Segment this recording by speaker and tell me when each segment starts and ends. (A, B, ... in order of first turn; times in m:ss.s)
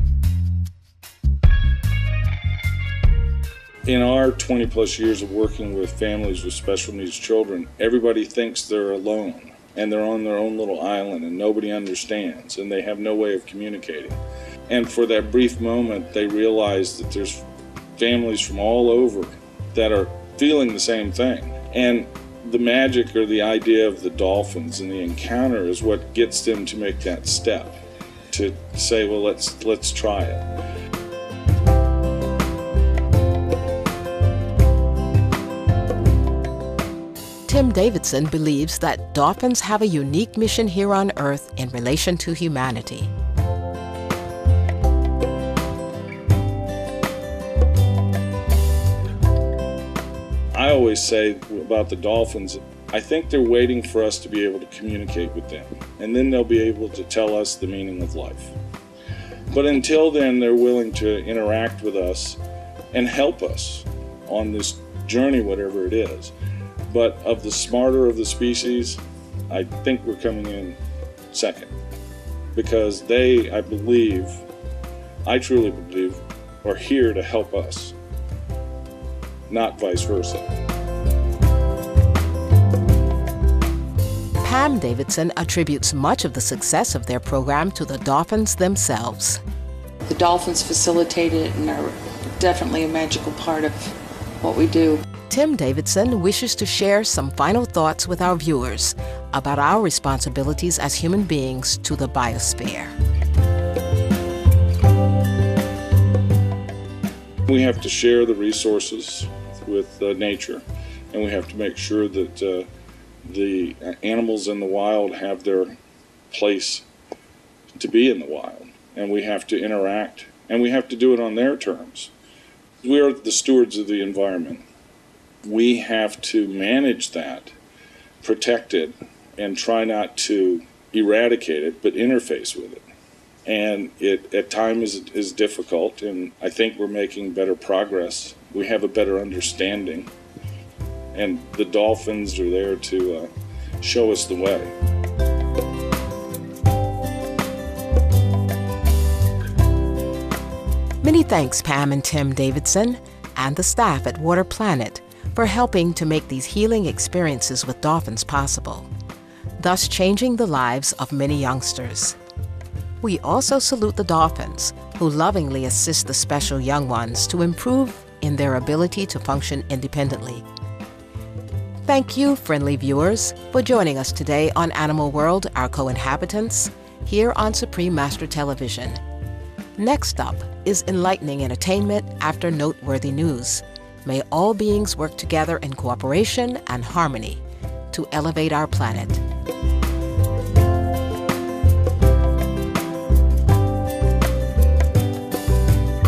0:03.8-0:14.2 A
0:14.7-0:27.8 A
0:28.3-0:30.4 A
0:37.4-0:43.1 B
0:50.5-0:58.5 A
0:59.5-1:02.4 A
1:02.9-1:06.3 A
1:06.9-1:10.8 A
1:11.3-1:11.7 A
1:12.5-1:14.4 A
1:15.2-1:17.9 A
1:19.5-1:20.5 A
1:24.4-1:29.4 B
1:30.0-1:35.0 C
1:35.3-1:42.9 B
1:47.5-1:52.7 A
1:53.2-1:55.8 A
1:56.3-1:56.8 A
1:57.8-2:02.1 A
2:02.8-2:04.6 A
2:05.4-2:07.5 A
2:08.2-2:12.8 A
2:13.4-2:20.1 A
2:21.1-2:24.7 A
2:31.0-2:38.9 B
2:39.6-2:42.2 B
2:43.0-2:50.4 B
2:51.8-2:59.0 B
2:59.8-3:09.2 B